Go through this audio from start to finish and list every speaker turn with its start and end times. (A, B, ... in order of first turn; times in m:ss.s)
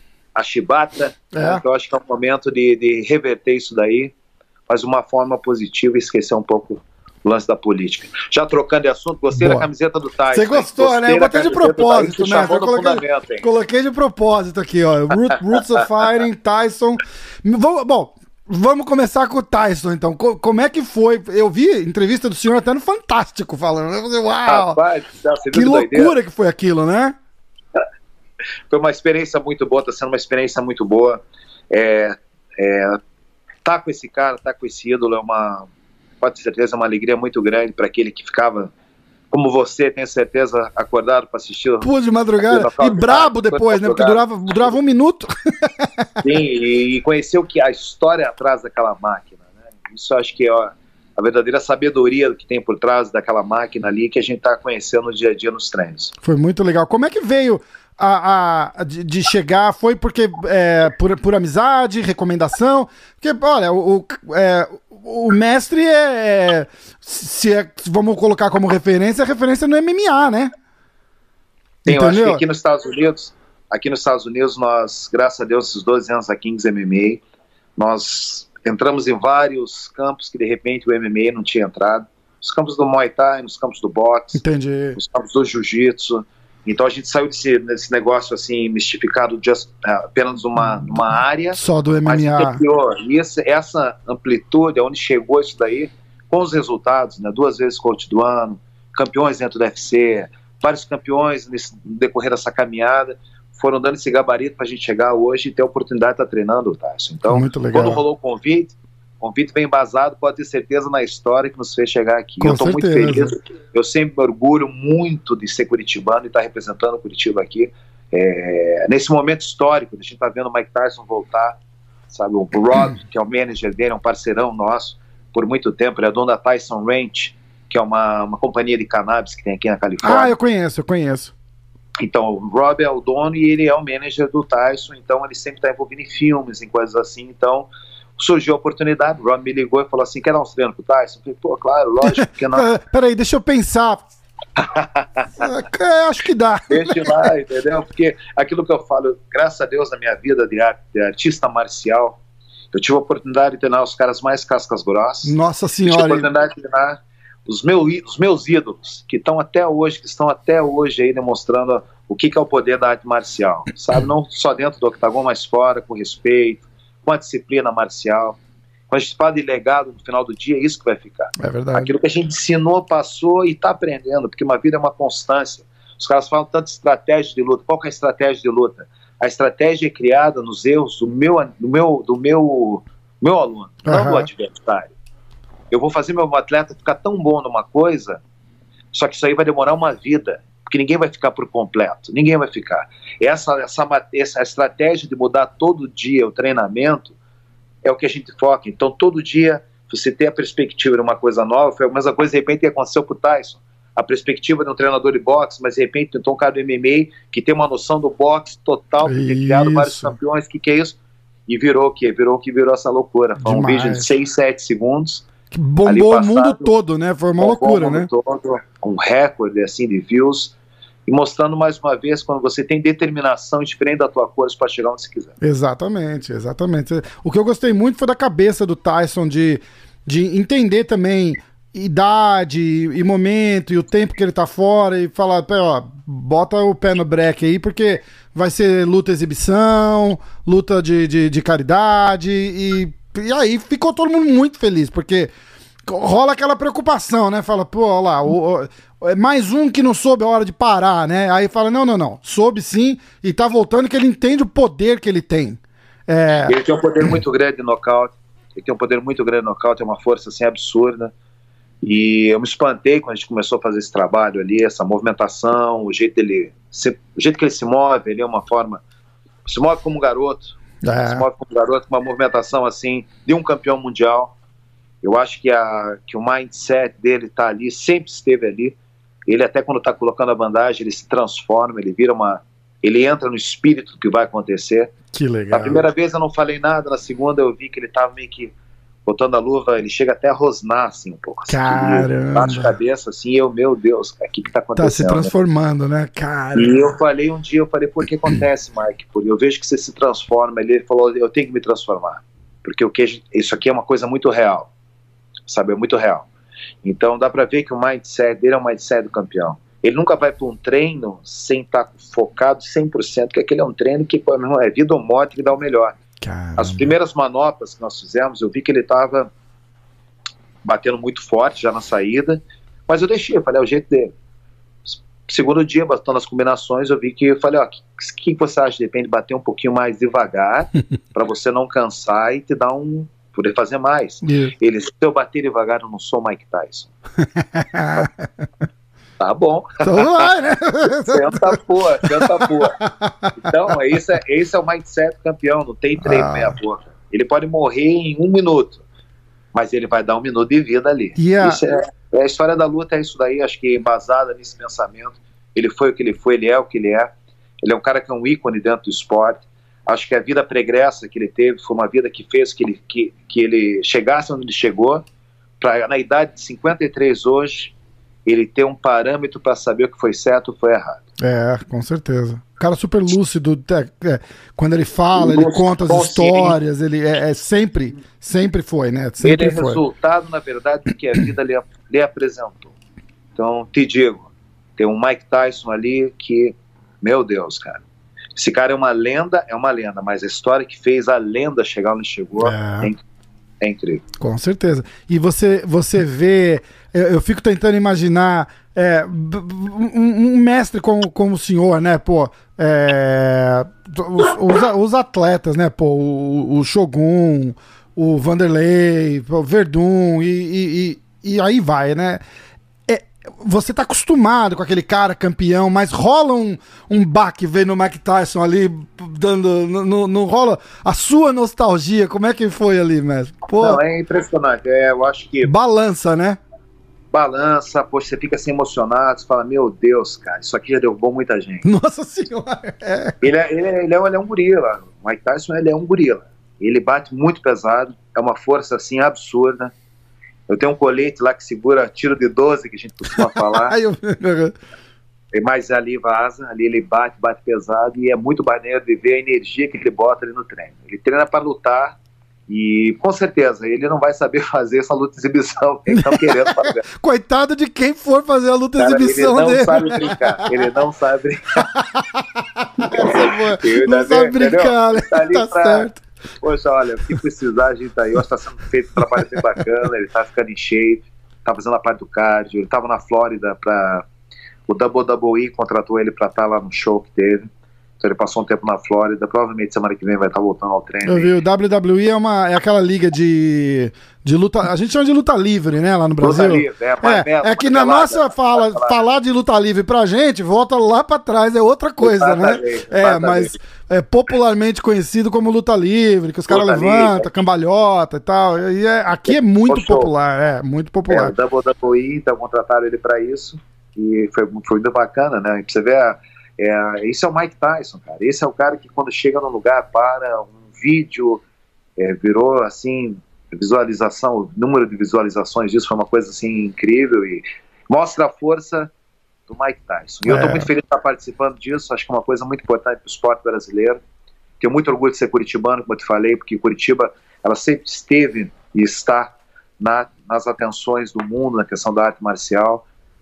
0:00.3-0:04.1 A
0:01.3-0:01.6 B
0:04.7-0:13.5 A
0:09.3-0:09.7 B
0:10.3-0:24.8 B
0:24.4-0:26.1 A
0:25.5-0:27.2 B
0:28.7-0:33.0 A
0:33.6-0:35.7 A
0:36.2-0:38.7 A
0:39.3-0:41.9 A
0:41.8-0:46.2 B
0:42.4-0:44.7 A
0:46.2-0:56.1 A
0:56.2-1:10.5 B
1:11.8-1:17.2 A
1:11.8-1:12.4 B
1:17.8-1:24.4 A
1:24.3-1:25.0 B
1:25.0-2:01.6 A
1:31.5-1:32.6 B
1:47.3-1:48.0 B
1:52.4-1:53.3 B
2:02.1-2:10.3 A
2:10.0-2:11.3 B
2:12.0-2:22.7 A
2:22.0-2:24.0 B
2:24.6-2:25.5 A
2:25.4-2:27.3 B
2:26.7-2:32.2 A
2:32.7-2:48.4 A
2:35.2-2:36.3 B
2:48.9-3:04.9 A
2:51.4-2:51.9 B
3:03.8-3:04.3 B
3:05.7-3:08.2 A
3:08.9-3:17.2 A
3:17.8-3:35.2 A
3:29.0-3:30.2 B
3:33.4-3:34.1 B
3:35.5-3:38.1 B
3:35.8-3:36.7 A
3:37.4-3:40.5 A
3:41.1-3:45.3 A
3:45.4-4:05.3 B
4:05.8-4:16.5 B
4:16.5-4:21.1 A
4:21.8-4:28.8 A
4:29.4-4:34.3 A
4:30.8-4:31.2 B
4:35.0-4:38.8 A
4:39.3-4:44.9 A
4:45.1-4:45.8 B
4:45.5-4:48.5 A
4:49.0-4:55.3 A
4:51.5-4:52.7 B
4:54.8-4:56.9 B
4:56.5-5:04.7 A
5:05.5-5:06.3 A
5:06.8-5:16.0 A
5:16.2-5:16.9 B
5:16.6-5:19.3 A
5:20.6-5:24.1 A
5:24.9-5:36.9 A
5:34.2-5:34.5 B
5:37.4-5:38.3 B
5:39.2-5:40.3 A
5:39.8-5:41.6 B
5:41.0-5:42.8 A
5:42.2-5:43.3 B
5:43.4-5:48.8 A
5:46.0-5:46.5 B
5:49.5-5:57.1 A
5:51.2-5:51.6 B
5:57.6-6:05.0 A
6:05.6-6:07.7 A
6:08.2-6:11.0 A
6:11.2-6:19.8 B
6:15.1-6:16.6 A
6:19.2-6:22.7 A
6:23.4-6:27.8 A
6:28.4-6:33.0 A
6:32.4-6:32.9 B
6:33.6-6:34.0 A
6:34.2-6:52.2 B
6:52.9-7:03.8 B
7:03.5-7:05.5 A
7:05.4-7:06.4 B
7:07.1-7:11.6 A
7:11.6-7:13.1 B
7:13.2-7:19.7 A
7:20.5-7:23.8 A
7:23.3-7:24.5 B
7:25.3-7:36.8 A
7:35.9-7:40.5 B
7:38.8-7:41.7 A
7:41.7-7:46.0 B
7:42.8-7:45.9 A
7:46.4-7:54.0 A
7:49.1-7:49.6 B
7:54.7-8:01.3 A
8:01.0-8:21.3 B
8:06.2-8:09.0 A
8:12.0-8:13.6 A
8:16.5-8:17.3 A
8:19.3-8:20.1 A
8:21.1-8:31.4 A
8:32.0-8:38.9 A
8:39.5-8:44.0 A
8:40.2-8:40.7 B
8:44.6-8:52.8 A